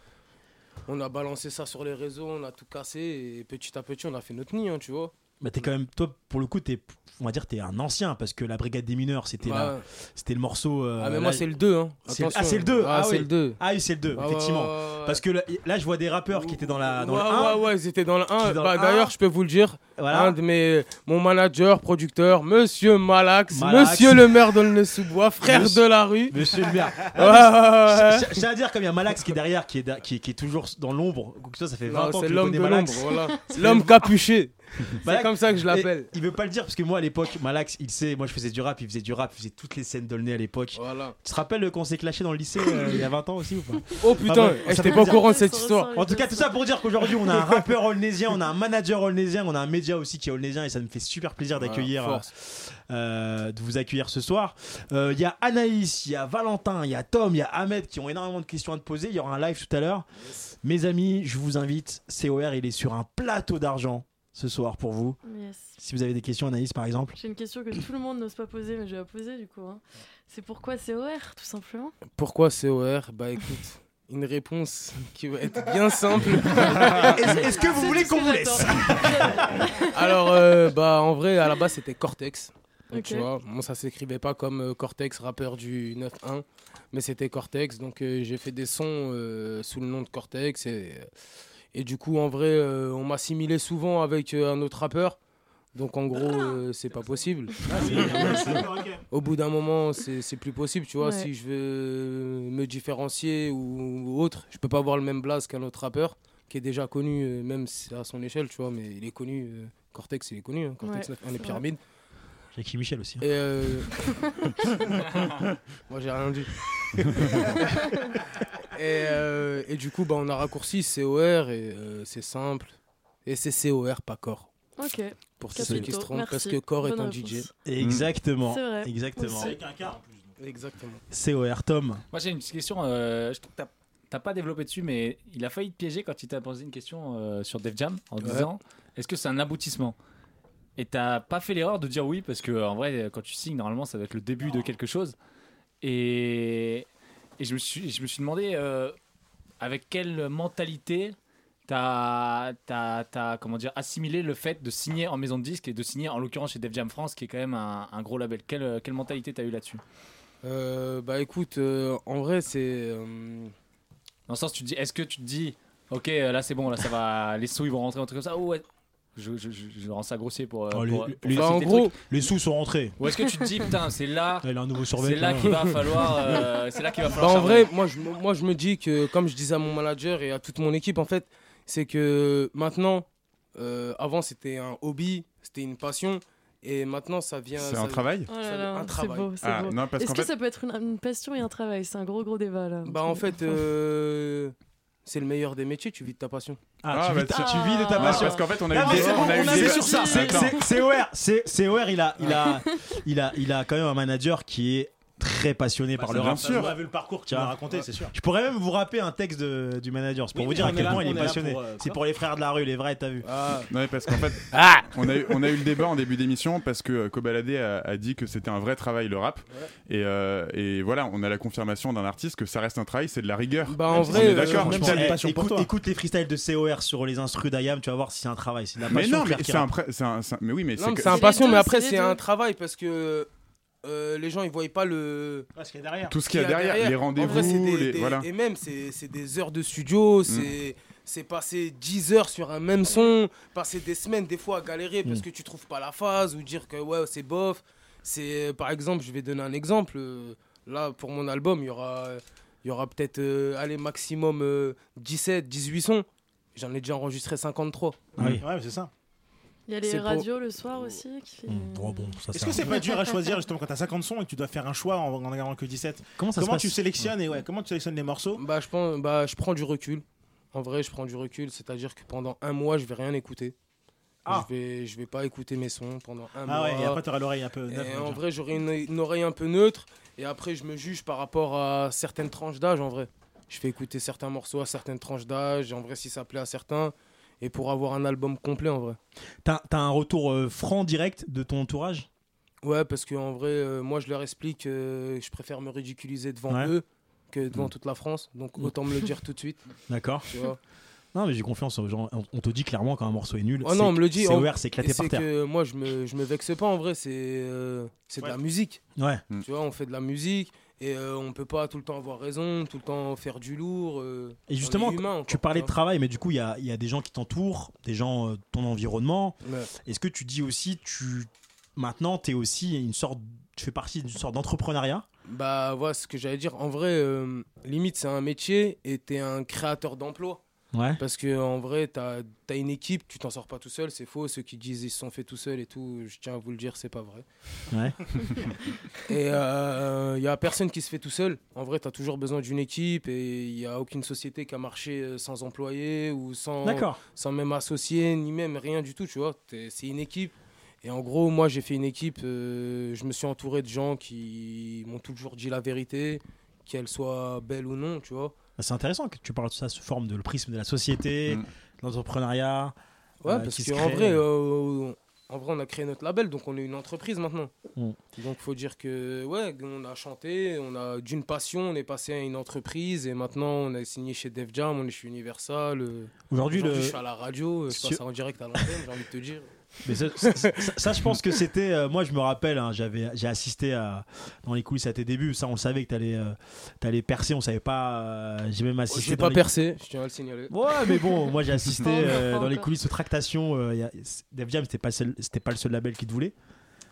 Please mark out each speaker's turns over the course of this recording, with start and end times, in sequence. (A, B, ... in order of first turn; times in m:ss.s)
0:00.9-0:05.1 A
0:05.4-0:11.4 B
0:09.4-0:09.8 A
0:11.0-0:13.6 A
0:12.1-0:17.6 B
0:14.2-0:15.2 A
0:16.3-0:28.4 A
0:18.4-0:19.1 B
0:20.0-0:20.3 B
0:23.5-0:24.4 B
0:25.4-0:33.9 B
0:31.8-0:36.1 A
0:35.0-0:45.3 B
0:40.7-0:41.2 A
0:44.0-0:45.9 A
0:44.4-0:47.1 C
0:45.9-1:00.0 B
0:51.6-0:52.2 A
1:00.6-1:05.2 B
1:05.2-1:05.8 C
1:05.8-1:07.2 B
1:07.2-1:11.9 C
1:12.2-1:17.4 A
1:16.8-1:19.5 B
1:16.9-1:19.9 C
1:19.9-1:31.1 A
1:22.9-1:23.3 C
1:31.7-1:35.2 A
1:35.7-1:38.6 A
1:37.6-1:39.0 D
1:37.8-1:38.4 B
1:38.2-1:38.6 C
1:39.1-1:51.8 A
1:41.0-1:41.3 C
1:50.8-1:51.6 C
1:52.5-1:53.2 B
1:53.2-1:53.9 A
1:55.9-1:56.5 A
1:57.2-1:57.5 A
1:57.6-1:58.0 C
1:58.7-2:04.5 A
2:04.8-2:07.5 C
2:05.4-2:07.5 A
2:05.6-2:05.9 B
2:07.6-2:09.5 B
2:07.8-2:08.1 E
2:08.4-2:09.6 C
2:09.2-2:10.4 D
2:10.4-2:11.0 A
2:11.1-2:12.0 B
2:12.1-2:20.0 F
2:18.2-2:18.5 A
2:20.8-2:25.1 F
2:25.8-2:26.8 F
2:27.4-2:28.9 F
2:29.6-2:31.2 F
2:31.7-2:39.8 F
2:40.4-2:43.5 A
2:44.3-2:48.6 F
2:49.2-2:51.9 F
2:50.7-2:53.0 B
2:51.3-2:51.9 A
2:53.0-2:57.7 F
2:54.4-2:56.1 B
2:55.4-2:56.4 A
2:57.1-3:09.3 A
3:07.6-3:08.3 E
3:08.3-3:13.5 C
3:09.4-3:10.3 E
3:12.8-3:14.5 A
3:15.0-3:16.6 A
3:16.8-3:26.7 B
3:16.9-3:20.6 E
3:17.3-3:20.9 C
3:25.9-3:28.1 D
3:26.1-3:26.8 E
3:27.3-3:27.6 B
3:28.1-3:33.3 B
3:30.3-3:32.0 D
3:33.2-3:33.7 A
3:33.7-3:45.1 E
3:34.5-3:34.9 A
3:43.7-3:44.9 A
3:43.9-3:49.7 B
3:44.1-3:45.7 D
3:48.9-3:51.4 E
3:50.8-3:53.3 A
3:51.0-3:52.2 C
3:53.8-3:55.5 A
3:55.5-3:56.2 D
3:56.1-3:58.3 E
3:56.2-4:18.1 A
3:57.2-3:57.5 C
4:18.2-4:18.4 B
4:18.2-4:18.9 D
4:19.7-4:22.2 C
4:19.8-4:20.3 A
4:21.5-4:22.7 B
4:22.3-4:28.4 D
4:22.8-4:23.1 C
4:26.2-4:27.1 B
4:28.4-4:33.5 A
4:34.3-4:37.0 A
4:36.4-4:38.2 D
4:37.7-4:49.0 A
4:49.4-4:52.1 B
4:52.6-4:59.6 A
4:59.9-5:00.3 B
5:00.3-5:00.6 A
5:01.1-5:05.2 B
5:03.6-5:08.8 A
5:09.0-5:09.2 B
5:09.4-5:15.7 A
5:14.5-5:25.0 B
5:19.4-5:19.7 A
5:25.3-5:30.4 A
5:30.7-5:31.0 B
5:31.0-5:37.2 A
5:37.7-5:38.0 B
5:39.1-5:58.3 A
5:46.6-5:47.0 B
5:58.6-6:02.7 B
6:03.2-6:07.5 A
6:03.2-6:04.2 B
6:08.1-6:19.5 A
6:16.3-6:17.0 B
6:17.7-6:18.0 B
6:19.8-6:29.4 B
6:20.2-6:20.7 A
6:28.9-6:30.5 A
6:30.5-6:36.3 B
6:31.8-6:32.7 C